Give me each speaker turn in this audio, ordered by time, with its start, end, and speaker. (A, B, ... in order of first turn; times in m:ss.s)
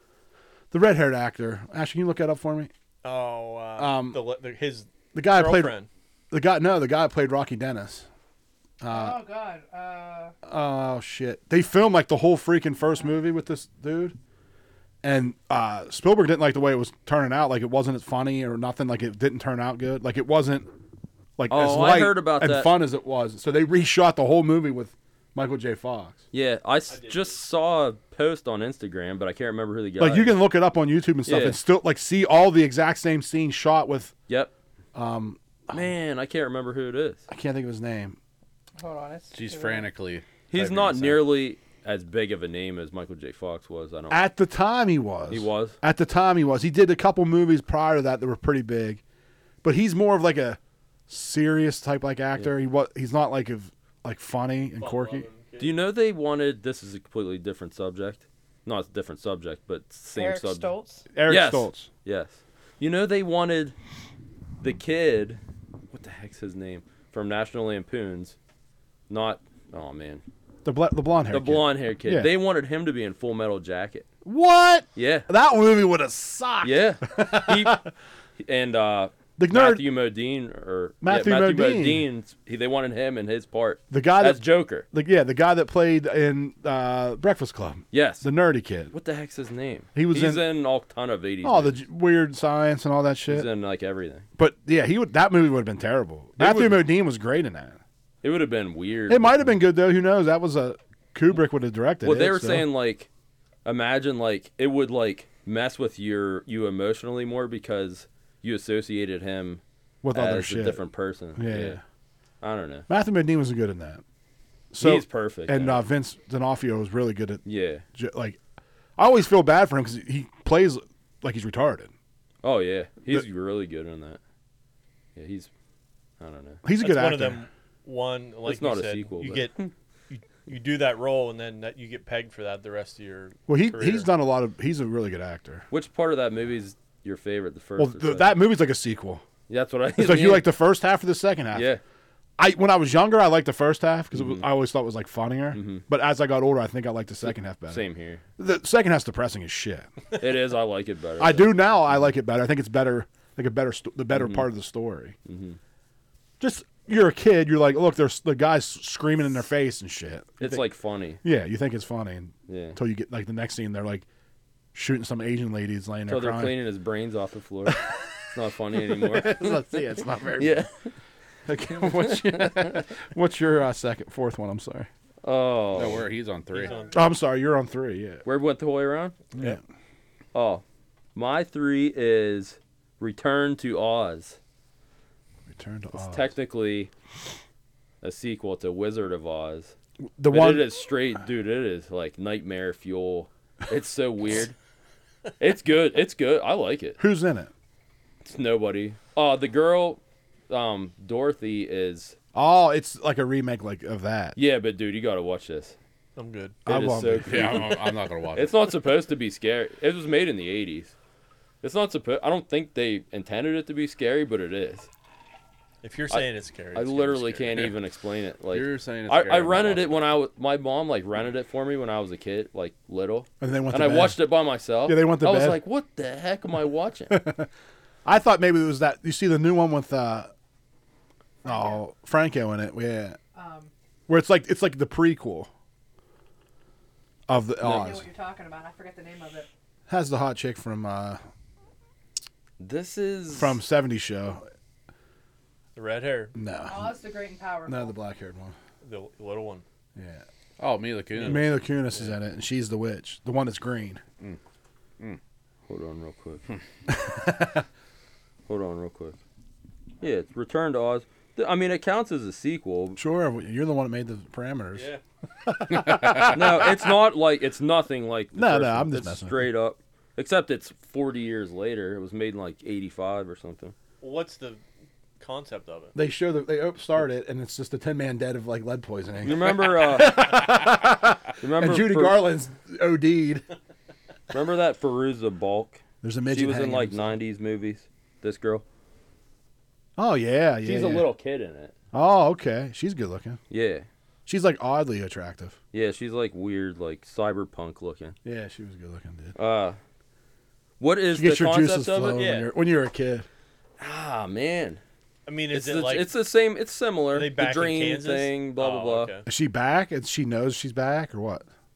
0:00.7-0:02.7 A
0:03.0-0:05.9 B
0:03.8-0:04.2 A
0:05.1-0:05.7 A
0:06.3-0:08.1 A
0:08.8-0:09.2 A
0:08.9-0:10.3 C
0:10.4-0:14.2 A
0:15.0-0:20.7 A
0:21.4-0:26.2 A
0:21.5-0:22.8 D
0:26.3-0:30.4 D
0:26.9-0:27.4 B
0:30.0-0:34.1 A
0:31.2-0:31.6 D
0:34.9-0:35.9 A
0:35.7-0:37.2 D
0:37.3-0:38.2 A
0:38.8-0:39.9 C
0:39.3-0:41.2 E
0:40.5-0:44.2 D
0:44.1-0:49.0 A
0:45.3-0:45.8 D
0:49.6-0:55.3 A
0:54.8-0:55.7 B
0:55.6-1:00.7 D
1:00.1-1:01.1 C
1:01.1-1:01.9 A
1:01.3-1:03.8 D
1:04.6-1:05.4 D
1:05.9-1:08.4 D
1:09.1-1:10.2 D
1:10.6-1:12.3 A
1:11.3-1:14.1 D
1:14.2-1:17.8 A
1:15.0-1:15.3 D
1:16.6-1:17.8 D
1:18.4-1:24.9 D
1:19.4-1:19.8 A
1:21.0-1:22.0 A
1:23.9-1:28.9 A
1:27.9-1:28.3 D
1:28.9-1:31.8 D
1:30.0-1:30.4 A
1:31.4-1:33.5 A
1:33.3-1:34.3 D
1:34.4-1:37.8 A
1:36.4-1:36.8 D
1:38.2-1:39.5 D
1:39.1-1:42.7 A
1:42.0-1:43.1 D
1:43.6-1:49.6 D
1:50.0-1:50.8 A
1:50.1-1:51.8 D
1:51.4-1:51.8 A
1:52.4-1:52.9 D
1:52.9-1:54.0 A
1:54.7-1:58.4 A
1:54.8-1:55.8 D
1:57.4-1:57.8 D
1:59.0-2:01.9 A
2:02.4-2:04.2 D
2:05.2-2:05.5 D
2:06.2-2:06.6 D
2:06.6-2:07.4 A
2:06.8-2:14.1 B
2:08.5-2:09.7 D
2:13.5-2:15.6 A
2:15.7-2:18.4 D
2:17.8-2:19.2 A
2:19.5-2:20.5 D
2:20.0-2:21.7 A
2:21.5-2:21.8 D
2:22.4-2:27.8 A
2:24.1-2:24.5 D
2:25.5-2:25.9 D
2:27.7-2:28.2 D
2:28.4-2:29.9 A
2:30.2-2:31.6 D
2:31.2-2:35.2 A
2:34.1-2:34.5 D
2:35.3-2:35.6 D
2:36.4-2:40.7 A
2:40.4-2:41.2 D
2:41.2-2:44.0 A
2:42.5-2:42.8 D
2:44.7-2:46.6 A
2:46.1-2:49.7 D
2:48.9-2:50.6 A
2:50.4-2:51.0 D
2:51.5-2:54.9 A
2:51.8-2:52.9 D
2:55.2-2:56.1 D
2:55.7-2:56.8 E
2:56.5-2:57.0 B
2:56.7-2:57.0 C
2:56.9-2:58.2 A
2:58.2-2:59.2 D
2:59.4-2:59.6 A
3:00.3-3:00.6 D
3:01.2-3:04.4 D
3:05.5-3:06.3 A
3:05.9-3:06.9 D
3:08.0-3:09.7 D
3:10.2-3:10.7 A
3:10.3-3:14.6 D
3:15.4-3:17.0 D
3:17.0-3:17.5 A
3:18.2-3:22.2 D
3:22.3-3:24.4 A
3:24.4-3:25.8 D
3:26.2-3:26.6 B
3:26.7-3:27.8 D
3:26.7-3:27.8 A
3:27.3-3:28.5 E
3:28.3-3:30.9 D
3:31.6-3:34.9 D
3:35.8-3:37.5 B
3:36.1-3:47.2 D
3:38.5-3:40.0 E
3:43.4-3:44.2 A
3:44.8-3:45.6 A
3:47.1-3:47.5 A
3:48.0-3:50.3 A
3:51.4-3:51.8 C
3:51.4-3:53.2 A
3:53.4-3:53.7 C
3:54.1-3:55.5 A
3:57.3-3:58.0 A
3:57.6-3:59.5 C
3:59.9-4:01.2 A
4:02.6-4:03.6 D
4:03.4-4:04.5 A
4:05.8-4:06.3 B
4:06.4-4:07.0 A
4:06.7-4:08.0 C
4:07.7-4:08.6 A
4:08.8-4:09.6 B
4:10.0-4:10.2 A
4:10.6-4:11.5 E
4:11.2-4:12.2 B
4:11.2-4:14.0 A
4:15.7-4:16.4 D
4:16.9-4:17.6 A
4:18.5-4:19.2 D
4:20.0-4:23.0 D
4:23.0-4:24.9 A
4:24.7-4:25.0 B
4:25.4-4:26.8 A
4:25.8-4:26.3 E
4:26.3-4:33.7 D
4:28.4-4:29.4 A
4:34.0-4:34.6 B
4:35.2-4:36.0 B
4:36.0-4:43.4 A
4:39.2-4:40.4 D
4:41.4-4:42.2 D
4:44.3-4:48.6 D
4:46.0-4:47.2 A
4:50.0-4:51.1 A
4:50.6-4:51.7 D
4:51.9-4:53.4 A
4:53.5-4:53.9 D
4:54.3-4:55.6 A
4:55.7-4:58.2 D
4:58.2-4:59.4 A
4:59.4-4:59.8 D
5:00.8-5:02.2 D
5:01.1-5:03.3 A
5:02.2-5:02.5 B
5:03.8-5:04.8 D
5:05.3-5:06.1 B
5:05.5-5:09.2 D
5:07.1-5:09.2 B
5:09.3-5:11.4 A